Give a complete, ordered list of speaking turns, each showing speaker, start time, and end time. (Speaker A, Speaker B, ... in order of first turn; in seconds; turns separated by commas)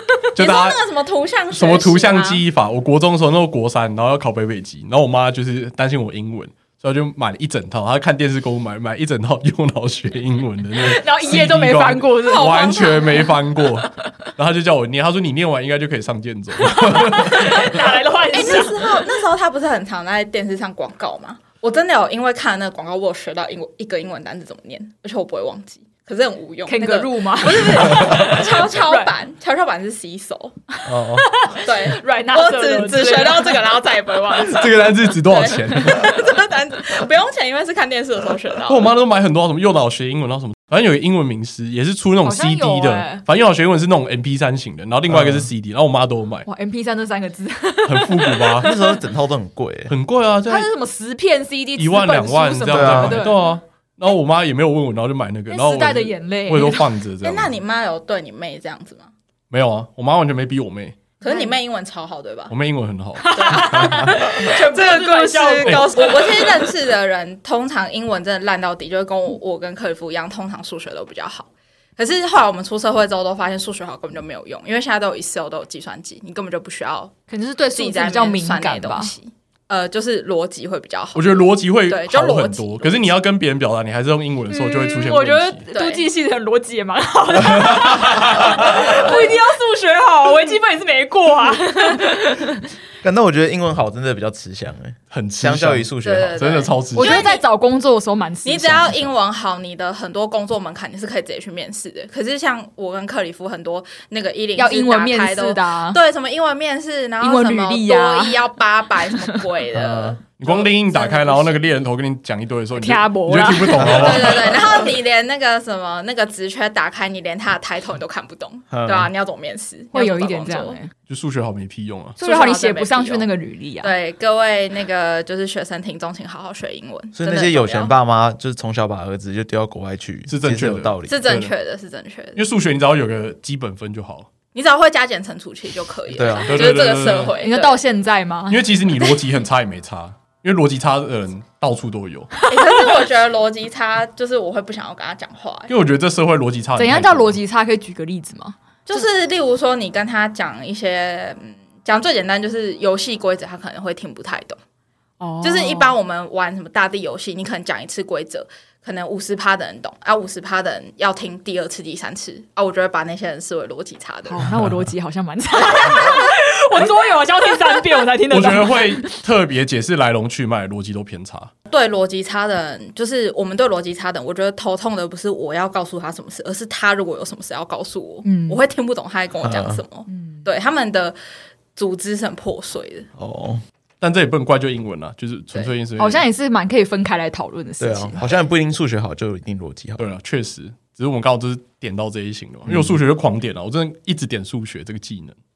Speaker A: 0.3-0.8, Speaker B: 0.4-2.4, Speaker A: 1.5-17.7, Speaker C: 10.8-13.3, Speaker B: 12.2-13.3, Speaker C: 16.6-19.1, Speaker B: 18.3-30.5, Speaker C: 26.7-29.1, Speaker C: 30.8-33.8, Speaker D: 30.9-31.3, Speaker B: 31.6-38.9, Speaker A: 34.4-36.2, Speaker A: 38.7-46.5, Speaker C: 42.2-43.2, Speaker D: 45.1-45.5, Speaker C: 46.5-49.0, Speaker A: 47.9-48.7, Speaker D: 48.6-49.9, Speaker A: 49.9-50.7, Speaker C: 50.5-53.5, Speaker A: 51.8-57.5, Speaker D: 52.7-53.2, Speaker C: 55.5-56.9, Speaker B: 57.2-59.1, Speaker A: 59.5-61.0, Speaker B: 61.2-62.5, Speaker C: 61.2-61.5, Speaker A: 62.5-63.7, Speaker C: 63.2-66.6, Speaker B: 63.3-77.2, Speaker A: 65.7-65.9, Speaker C: 77.3-79.1, Speaker B: 77.8-83.1, Speaker A: 81.2-85.6, Speaker C: 84.5-92.7, Speaker B: 85.7-86.1, Speaker A: 87.5-89.0, Speaker D: 93.0-96.5, Speaker A: 95.1-97.2, Speaker B: 96.0-97.4, Speaker C: 96.9-99.1, Speaker B: 98.4-111.6, Speaker C: 104.6-106.0, Speaker C: 107.2-108.4, Speaker D: 109.7-110.2, Speaker A: 110.4-114.9, Speaker C: 112.8-114.1, Speaker D: 113.8-114.5, Speaker B: 113.8-120.8, Speaker D: 118.7-119.1, Speaker C: 119.9-120.9, Speaker A: 121.1-122.2, Speaker C: 122.2-123.9, Speaker B: 122.2-123.3, Speaker B: 123.8-127.9, Speaker D: 127.2-131.2, Speaker A: 130.3-131.5, Speaker B: 131.1-132.4, Speaker A: 132.3-134.3, Speaker B: 134.5-137.8, Speaker D: 136.1-136.9, Speaker A: 136.4-137.3, Speaker C: 137.3-139.2, Speaker A: 138.5-142.3, Speaker B: 142.4-145.7, Speaker A: 145.7-147.4, Speaker C: 146.8-149.1, Speaker B: 148.9-154.6, Speaker C: 155.2-155.9, Speaker B: 155.4-164.5, Speaker C: 164.3-169.2, Speaker A: 168.3-171.5, Speaker B: 171.7-181.2, Speaker C: 178.2-178.6, Speaker D: 179.4-179.8, Speaker C: 180.1-180.4, Speaker B: 181.8-183.1, Speaker D: 183.2-183.6, Speaker A: 184.0-186.2, Speaker C: 186.0-188.2, Speaker D: 187.8-190.0, Speaker A: 190.0-195.3, Speaker D: 192.7-192.9